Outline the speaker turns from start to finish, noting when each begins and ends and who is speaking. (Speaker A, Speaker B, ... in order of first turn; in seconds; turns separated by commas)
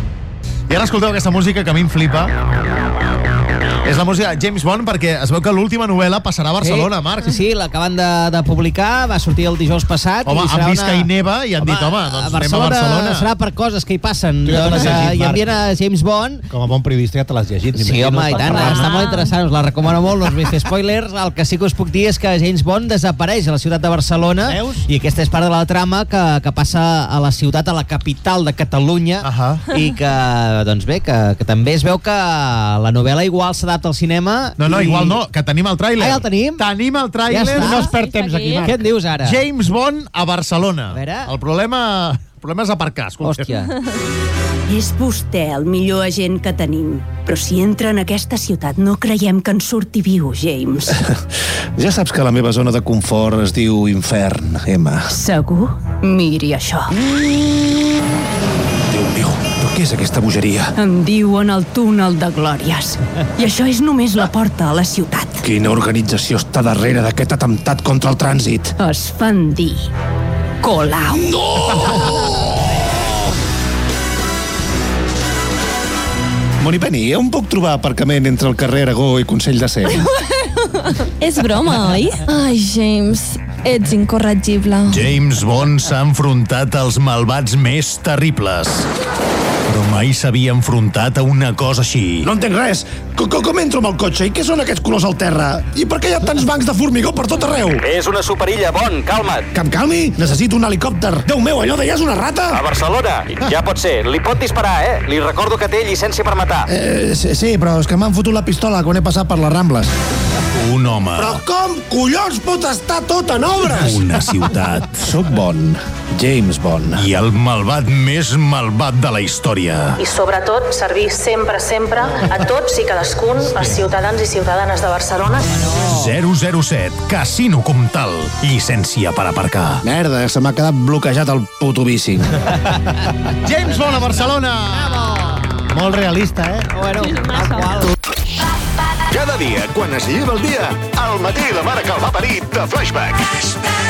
Speaker A: 0.7-2.3, Speaker A: 3.8-7.4, Speaker B: 6.6-11.1, Speaker A: 10.2-13.3, Speaker B: 11.6-16.5, Speaker C: 14.4-15.4, Speaker D: 14.5-15.1, Speaker C: 16.5-19.0, Speaker B: 17.7-35.2, Speaker D: 17.9-18.4, Speaker E: 18.3-19.3, Speaker C: 24.4-24.9, Speaker A: 29.2-29.6, Speaker A: 34.6-37.8, Speaker B: 36.0-36.6, Speaker B: 37.3-37.9, Speaker C: 37.4-38.9, Speaker E: 37.6-38.7, Speaker B: 38.6-39.4, Speaker A: 39.2-43.5, Speaker B: 40.9-41.3, Speaker B: 43.2-43.7, Speaker F: 44.7-51.0, Speaker D: 51.8-55.1, Speaker F: 55.1-56.9, Speaker D: 58.9-60.7, Speaker F: 60.8-65.4, Speaker D: 65.4-68.7, Speaker F: 68.8-69.9, Speaker F: 70.6-71.3, Speaker D: 71.3-72.3, Speaker D: 76.6-80.1, Speaker E: 80.8-85.0, Speaker A: 84.9-88.9, Speaker A: 89.7-92.3, Speaker D: 92.2-97.8, Speaker G: 97.8-99.5, Speaker D: 99.5-102.6, Speaker G: 102.5-106.7, Speaker D: 106.7-109.9, Speaker A: 110.5-111.4, Speaker D: 111.2-111.9, Speaker D: 112.4-114.0, Speaker A: 113.8-115.0, Speaker D: 115.0-117.0, Speaker A: 116.9-120.0, Speaker H: 120.0-125.6, Speaker B: 125.5-126.1, Speaker A: 125.8-129.8, Speaker D: 129.8-132.2, Speaker A: 133.4-135.3, Speaker B: 134.7-135.4, Speaker C: 135.6-136.7, Speaker B: 136.7-137.9, Speaker E: 137.0-137.9, Speaker I: 139.1-143.6